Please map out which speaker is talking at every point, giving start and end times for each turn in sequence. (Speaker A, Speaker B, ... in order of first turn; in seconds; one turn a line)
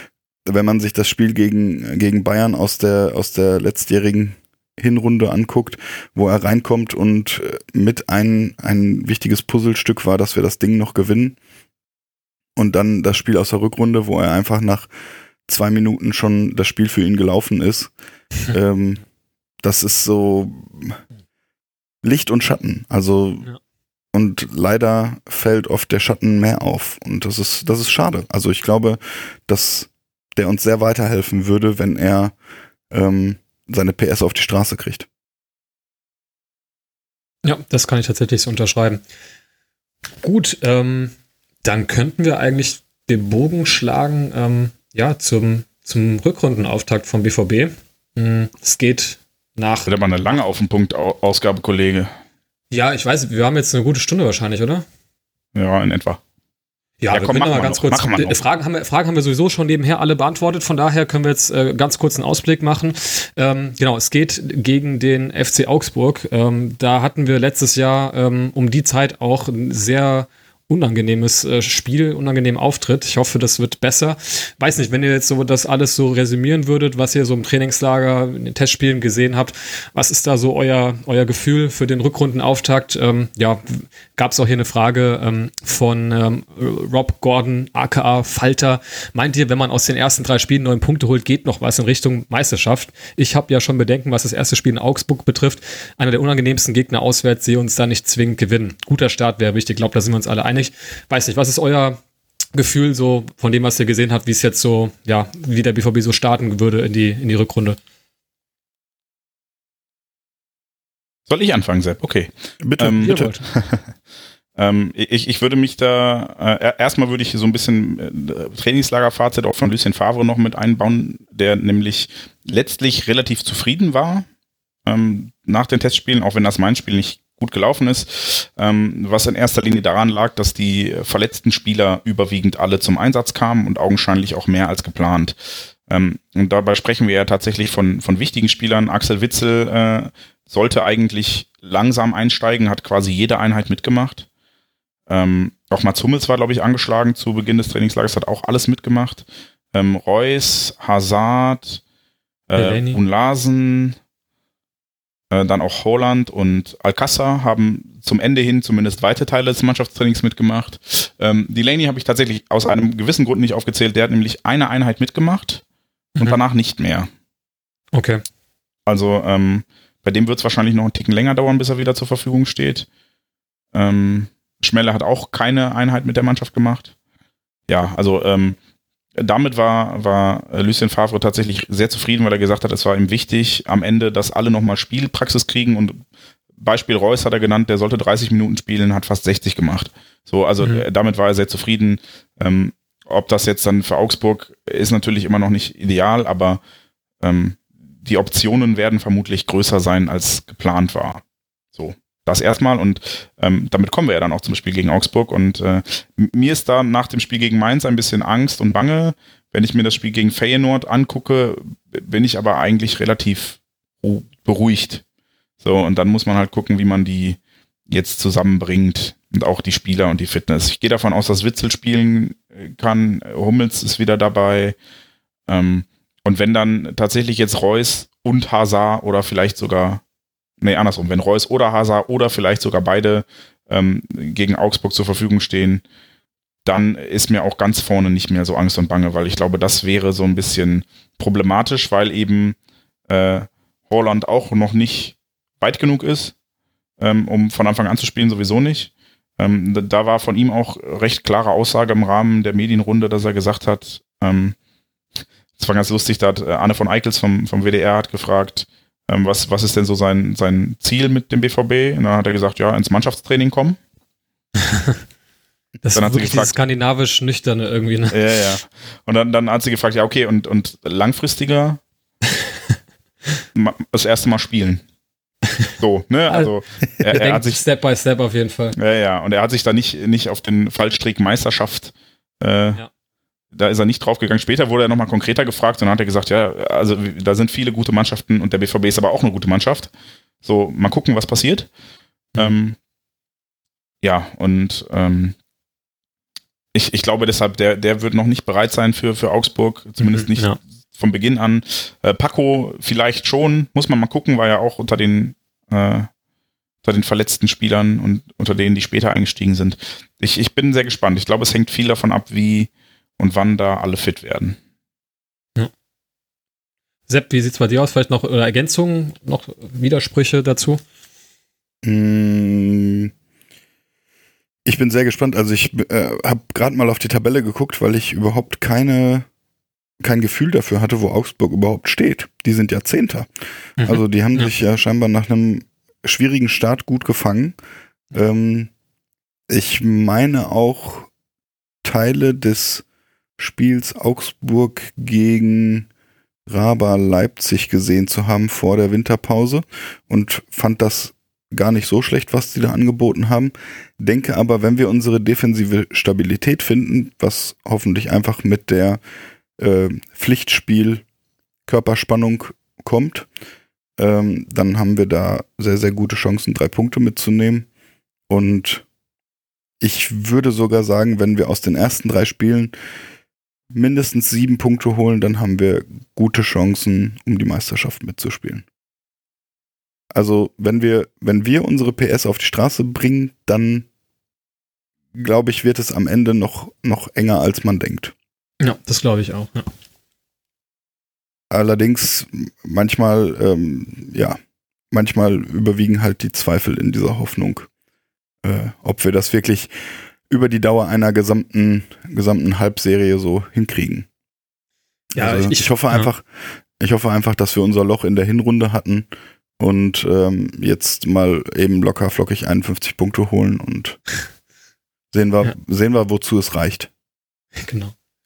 Speaker A: 0.5-11.4
Speaker A: 12.6-14.9
Speaker A: 15.5-17.9
Speaker A: 18.5-19.0
Speaker A: 19.6-21.0
Speaker A: 22.0-23.5
Speaker A: 24.1-32.3
Speaker A: 32.9-35.1
Speaker B: 37.4-39.0
Speaker B: 40.2-49.9
Speaker C: 49.9-52.1
Speaker B: 52.7-54.8
Speaker C: 55.5-56.2
Speaker B: 57.0-102.0
Speaker C: 57.1-58.4
Speaker B: 102.5-107.8
Speaker C: 111.3-113.9
Speaker A: 112.6-113.3
Speaker B: 113.0-113.4
Speaker C: 114.6-124.3
Speaker C: 124.9-135.4
Speaker C: 135.9-144.3
Speaker C: 145.1-151.8
Speaker C: 152.5-153.9
Speaker B: 152.6-153.0
Speaker C: 155.3-165.6
Speaker C: 166.2-167.1
Speaker B: 167.9-168.2
Speaker C: 168.9-172.9
Speaker C: 173.7-176.9
Speaker C: 177.7-178.6
Speaker C: 179.2-186.0
Speaker C: 186.6-196.6
Speaker C: 197.2-201.2
Speaker C: 201.7-215.0
Speaker C: 215.6-224.8
Speaker C: 225.5-230.0
Speaker C: 230.6-235.8
Speaker C: 236.6-242.6
Speaker C: 243.1-246.3
Speaker C: 247.0-254.6
Speaker C: 255.6-263.8
Speaker B: 264.7-265.0
Speaker B: 265.8-268.2
Speaker C: 265.9-266.6
Speaker C: 268.1-271.8
Speaker C: 273.6-274.8
Speaker C: 275.8-277.6
Speaker B: 277.1-278.8
Speaker C: 278.8-282.8
Speaker C: 283.6-289.9
Speaker C: 290.4-291.7
Speaker C: 292.4-292.8
Speaker C: 294.0-295.3
Speaker C: 296.7-306.1
Speaker B: 300.0-300.6
Speaker C: 306.8-314.6
Speaker B: 317.1-320.8
Speaker A: 321.8-323.1
Speaker A: 324.6-329.3
Speaker A: 330.0-333.3
Speaker B: 333.8-334.5
Speaker A: 333.8-337.6
Speaker A: 338.1-338.7
Speaker A: 339.5-341.1
Speaker A: 341.8-342.8
Speaker A: 343.4-345.9
Speaker A: 346.5-359.0
Speaker A: 359.6-361.0
Speaker A: 361.7-363.3
Speaker A: 364.0-367.7
Speaker A: 368.3-368.8
Speaker A: 369.8-372.7
Speaker A: 373.7-378.6
Speaker A: 380.1-383.9
Speaker A: 385.1-388.1
Speaker B: 388.6-389.7
Speaker A: 391.5-394.4
Speaker A: 394.9-397.7
Speaker A: 398.4-399.7
Speaker A: 400.3-404.1
Speaker A: 405.1-406.3
Speaker B: 405.1-406.1
Speaker A: 406.8-409.1
Speaker A: 409.6-414.0
Speaker A: 415.1-416.9
Speaker B: 417.6-417.9